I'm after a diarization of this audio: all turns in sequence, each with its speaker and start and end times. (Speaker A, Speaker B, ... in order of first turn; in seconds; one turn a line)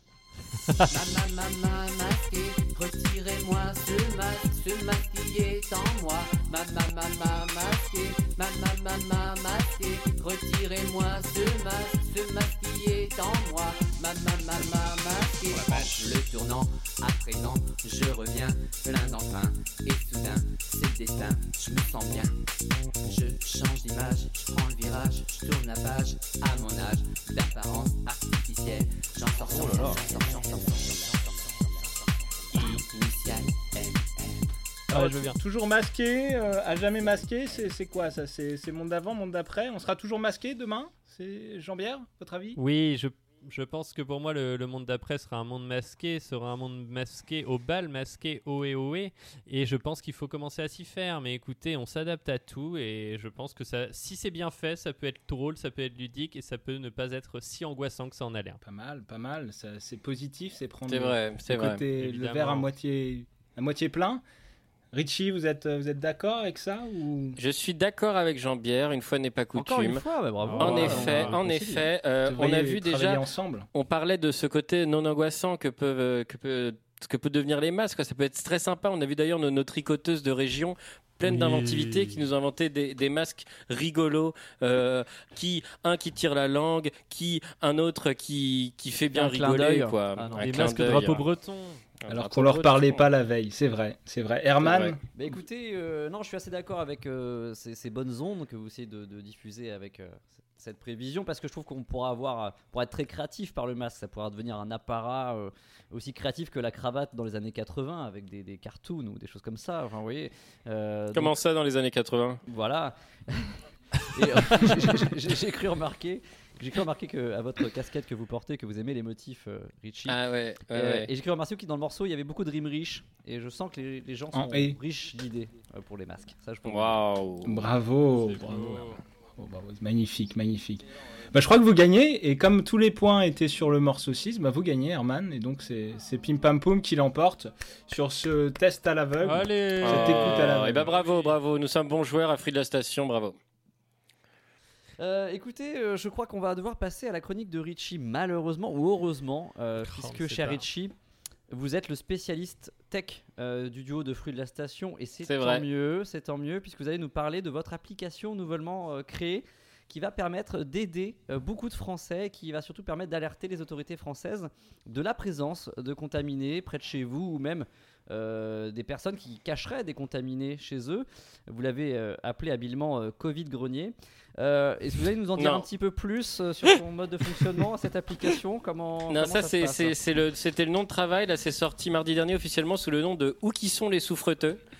Speaker A: 0.7-0.9
Speaker B: 0.9-22.4
Speaker B: 23.0-32.0
Speaker C: 29.5-30.1
Speaker B: 32.5-34.5
Speaker D: 34.9-42.6
Speaker A: 34.9-35.4
Speaker A: 42.5-58.6
Speaker D: 58.6-64.2
Speaker E: 60.9-61.8
Speaker A: 62.0-62.7
Speaker D: 64.9-67.4
Speaker E: 67.4-70.0
Speaker C: 69.5-71.9
Speaker A: 70.4-71.4
Speaker E: 70.6-73.2
Speaker D: 72.3-73.7
Speaker E: 73.7-91.2
Speaker A: 81.2-82.2
Speaker C: 89.1-91.2
Speaker A: 90.3-91.8
Speaker E: 92.0-93.1
Speaker D: 92.1-95.0
Speaker E: 94.6-94.9
Speaker C: 95.1-111.3
Speaker E: 111.1-112.4
Speaker C: 112.5-120.2
Speaker E: 120.1-121.1
Speaker C: 120.7-127.0
Speaker D: 124.3-124.8
Speaker E: 126.7-127.7
Speaker D: 127.4-140.9
Speaker A: 128.1-129.0
Speaker A: 139.2-141.3
Speaker E: 139.8-143.3
Speaker C: 145.0-150.9
Speaker A: 149.8-150.7
Speaker C: 151.5-180.0
Speaker E: 155.2-155.6
Speaker E: 175.4-175.7
Speaker E: 179.1-184.6